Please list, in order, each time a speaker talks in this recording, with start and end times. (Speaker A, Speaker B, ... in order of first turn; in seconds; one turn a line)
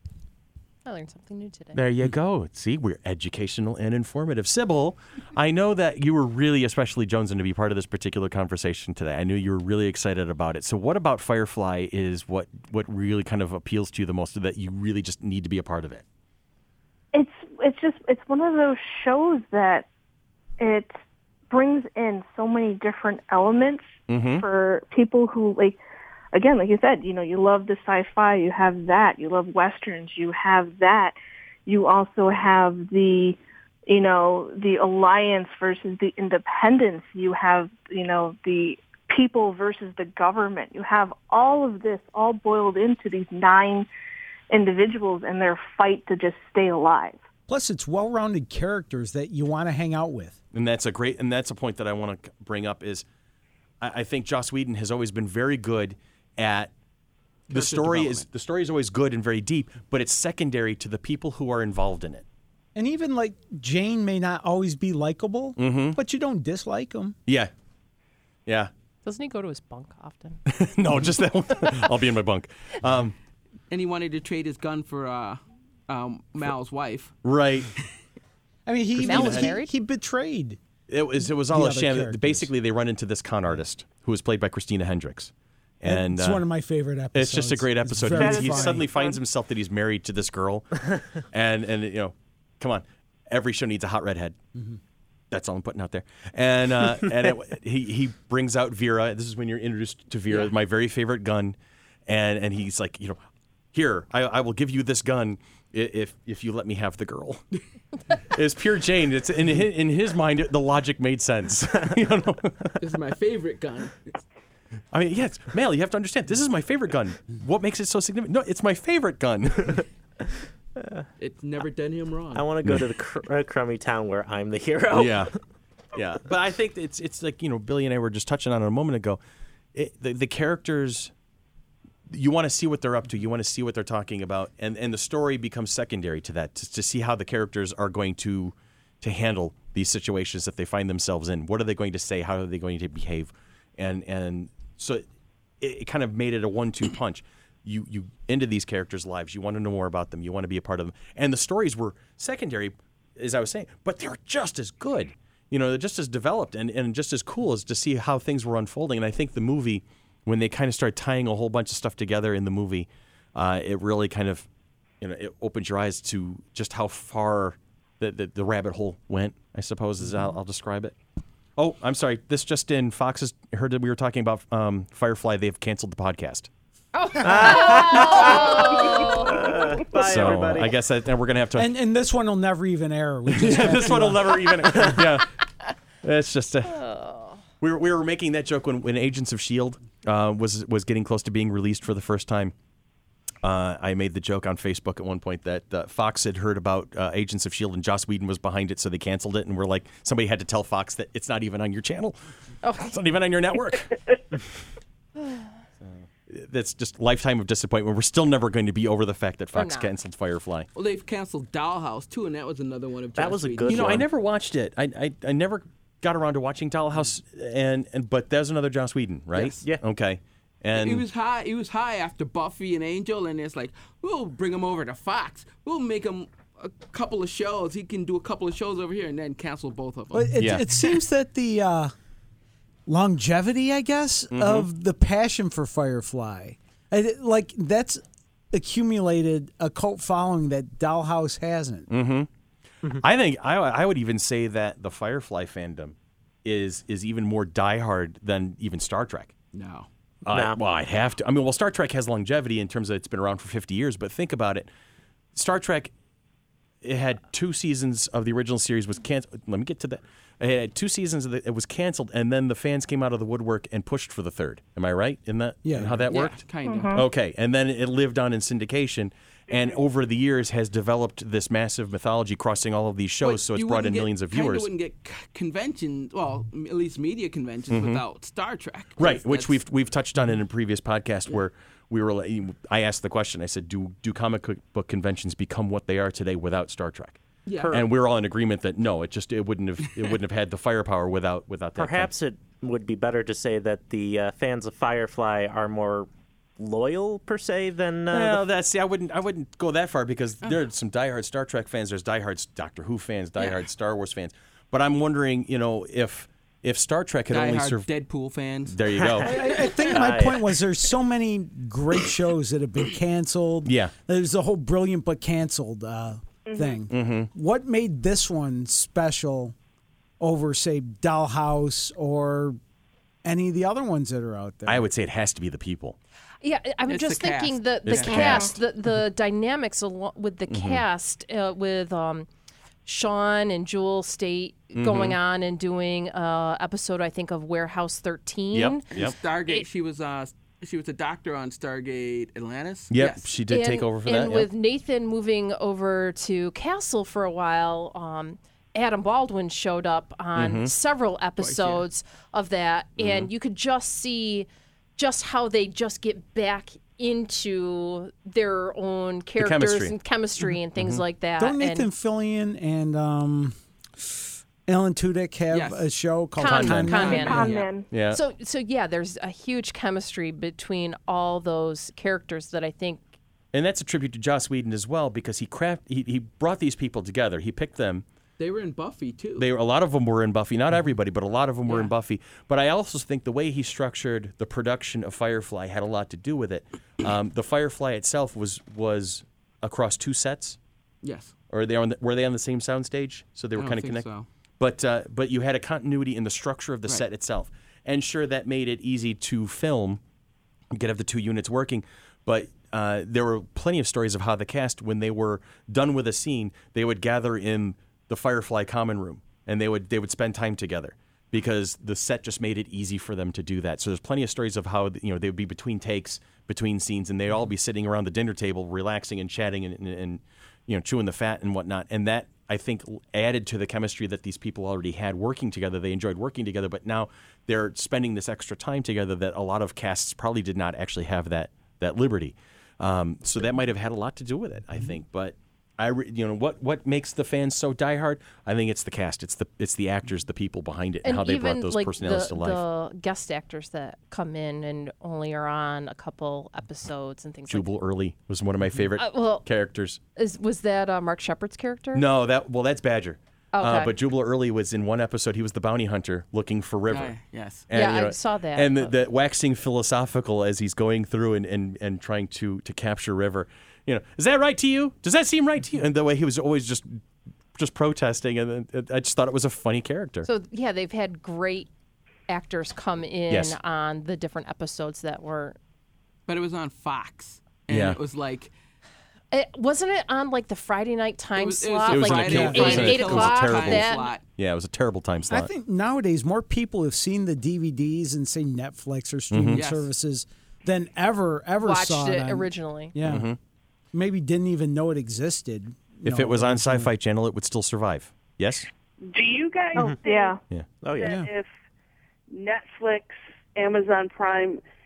Speaker A: 0.8-1.8
Speaker B: 1.7-16.0
Speaker C: 17.1-19.9
Speaker C: 20.6-20.9
Speaker C: 21.5-25.8
Speaker B: 24.1-24.5
Speaker C: 26.3-43.9
Speaker C: 44.5-47.2
Speaker D: 47.5-50.4
Speaker B: 50.5-53.0
Speaker B: 53.8-56.7
Speaker B: 57.5-62.2
Speaker E: 57.5-58.3
Speaker D: 62.8-67.2
Speaker B: 65.6-66.0
Speaker B: 68.5-68.7
Speaker A: 69.0-70.4
Speaker B: 70.5-73.2
Speaker E: 73.7-77.1
Speaker B: 77.2-77.7
Speaker D: 78.7-80.6
Speaker B: 79.0-79.5
Speaker A: 79.0-79.7
Speaker B: 80.9-86.5
Speaker D: 81.2-82.5
Speaker D: 85.8-88.9
Speaker B: 87.1-94.4
Speaker F: 88.1-89.2
Speaker B: 95.3-101.6
Speaker B: 102.1-103.2
Speaker B: 103.7-107.4
Speaker B: 108.1-112.8
Speaker E: 112.8-114.2
Speaker B: 114.9-119.8
Speaker E: 121.2-122.5
Speaker G: 122.3-125.3
Speaker B: 124.9-125.3
Speaker B: 125.9-129.2
Speaker B: 129.7-131.1
Speaker B: 132.1-145.0
Speaker B: 145.6-164.5
Speaker B: 165.0-170.9
Speaker B: 171.6-176.5
Speaker A: 176.9-179.7
Speaker G: 177.2-180.8
Speaker B: 179.9-181.7
Speaker D: 181.6-184.9
Speaker B: 183.3-185.3
Speaker B: 186.0-186.8
Speaker A: 186.7-187.4
Speaker B: 187.6-192.5
Speaker B: 193.4-202.2
Speaker A: 202.6-203.0
Speaker B: 202.9-204.0
Speaker B: 205.8-210.7
Speaker A: 209.6-209.9
Speaker E: 210.8-214.0
Speaker G: 213.2-214.1
Speaker B: 213.7-221.1
Speaker G: 219.3-219.8
Speaker E: 220.7-230.4
Speaker D: 230.1-231.9
Speaker B: 230.4-230.7
Speaker D: 232.9-241.9
Speaker B: 234.3-234.7
Speaker B: 241.9-242.3
Speaker B: 243.0-249.3
Speaker E: 249.5-249.9
Speaker B: 250.3-254.7
Speaker G: 250.3-250.6
Speaker B: 255.3-255.9
Speaker B: 256.8-274.7
Speaker D: 265.6-266.0
Speaker E: 265.8-267.0
Speaker C: 266.6-267.1
Speaker E: 273.2-279.6
Speaker B: 277.7-278.0
Speaker B: 279.0-292.1
Speaker E: 287.5-287.8
Speaker G: 291.8-298.4
Speaker B: 298.1-307.9
Speaker E: 307.3-308.8
Speaker B: 308.7-309.5
Speaker G: 309.0-310.6
Speaker D: 309.2-319.6
Speaker B: 313.6-313.9
Speaker C: 316.5-316.8
Speaker B: 316.9-317.3
Speaker D: 320.2-322.6
Speaker D: 323.2-324.9
Speaker B: 324.7-326.0
Speaker A: 326.4-332.3
Speaker E: 326.9-328.5
Speaker B: 327.9-328.5
Speaker B: 330.5-330.8
Speaker A: 332.9-338.9
Speaker B: 334.8-335.2
Speaker B: 338.5-339.1
Speaker E: 338.9-343.3
Speaker B: 342.9-344.5
Speaker A: 343.5-361.9
Speaker B: 350.4-350.7
Speaker E: 351.4-351.9
Speaker B: 353.0-353.3
Speaker B: 359.4-359.9
Speaker B: 360.8-361.0
Speaker D: 361.4-367.4
Speaker E: 365.5-365.9
Speaker A: 366.4-367.5
Speaker B: 366.4-367.3
Speaker E: 366.9-367.8
Speaker C: 367.2-367.9
Speaker B: 367.9-368.2
Speaker A: 368.1-373.1
Speaker B: 373.5-378.0
Speaker E: 378.4-379.5
Speaker B: 379.4-390.6
Speaker A: 381.7-381.9
Speaker E: 391.0-391.3
Speaker B: 391.5-394.1
Speaker E: 393.6-394.3
Speaker B: 394.6-400.0
Speaker B: 400.7-442.6
Speaker A: 441.0-447.7
Speaker B: 447.5-450.0
Speaker A: 449.0-449.5
Speaker A: 450.2-452.1
Speaker B: 451.9-457.2
Speaker A: 453.5-453.9
Speaker E: 456.9-457.7
Speaker B: 457.7-467.0
Speaker A: 457.7-459.0
Speaker B: 467.6-470.3
Speaker A: 470.2-471.7
Speaker A: 472.3-475.6
Speaker B: 473.3-473.6
Speaker E: 476.3-478.5
Speaker B: 477.7-478.0
Speaker A: 479.3-484.1
Speaker E: 481.4-484.2
Speaker B: 481.9-485.5
Speaker D: 482.3-482.9
Speaker D: 485.3-493.3
Speaker B: 489.3-489.6
Speaker E: 489.5-489.9
Speaker A: 491.6-492.9
Speaker B: 493.0-493.4
Speaker D: 493.9-496.9
Speaker B: 496.1-498.7
Speaker F: 499.1-500.4
Speaker C: 499.8-500.4
Speaker G: 500.8-501.2
Speaker F: 501.0-501.5
Speaker D: 501.0-501.3
Speaker F: 502.3-504.6